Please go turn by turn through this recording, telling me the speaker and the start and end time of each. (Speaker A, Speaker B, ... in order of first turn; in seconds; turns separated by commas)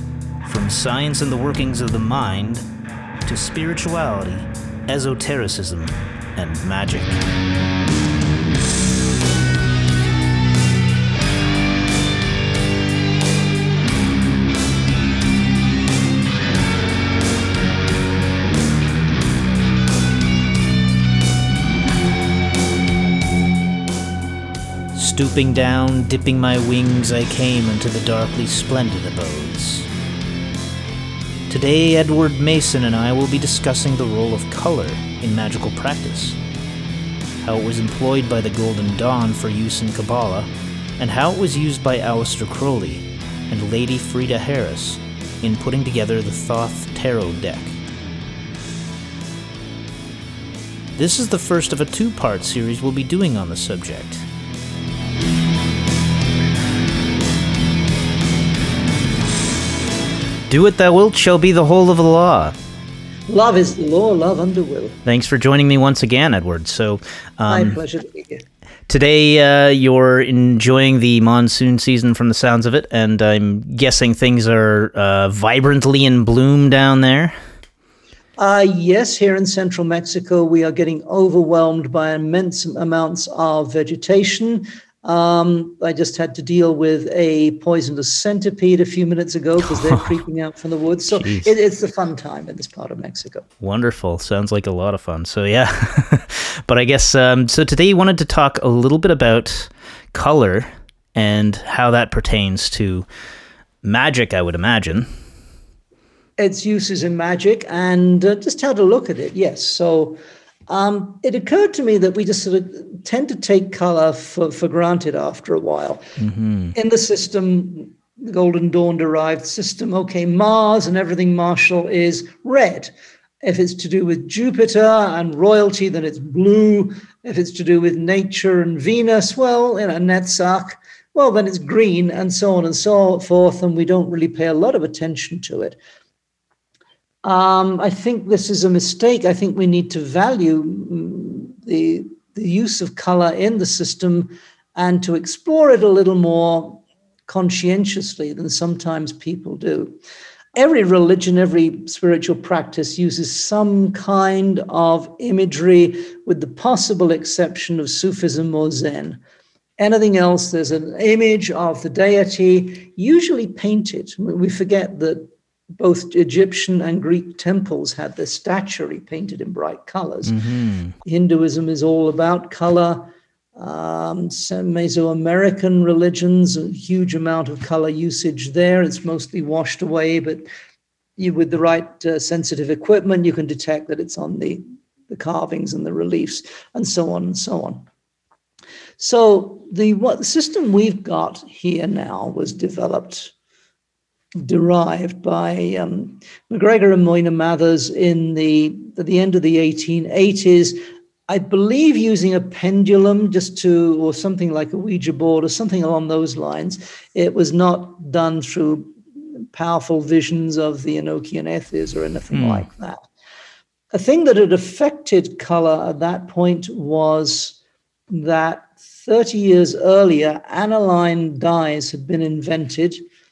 Speaker A: 0.4-2.6, Speaker A: 3.2-7.2, Speaker A: 24.9-29.9, Speaker A: 31.5-36.4, Speaker A: 37.4-47.8, Speaker A: 51.0-54.2, Speaker A: 60.5-62.5, Speaker B: 63.3-65.0, Speaker A: 65.0-67.8, Speaker B: 67.5-68.4, Speaker A: 68.9-77.3, Speaker B: 78.4-93.5, Speaker A: 91.1-91.5, Speaker A: 93.6-103.0, Speaker A: 103.8-105.1, Speaker B: 106.4-116.0, Speaker A: 116.2-116.7, Speaker B: 116.7-135.8, Speaker B: 137.2-150.0, Speaker B: 150.5-159.2, Speaker B: 159.8-170.3, Speaker A: 170.3-170.9, Speaker B: 171.0-180.4, Speaker B: 181.2-187.8, Speaker B: 189.0-193.3, Speaker B: 194.4-213.0, Speaker A: 212.3-212.7, Speaker B: 213.9-217.6, Speaker B: 218.1-223.0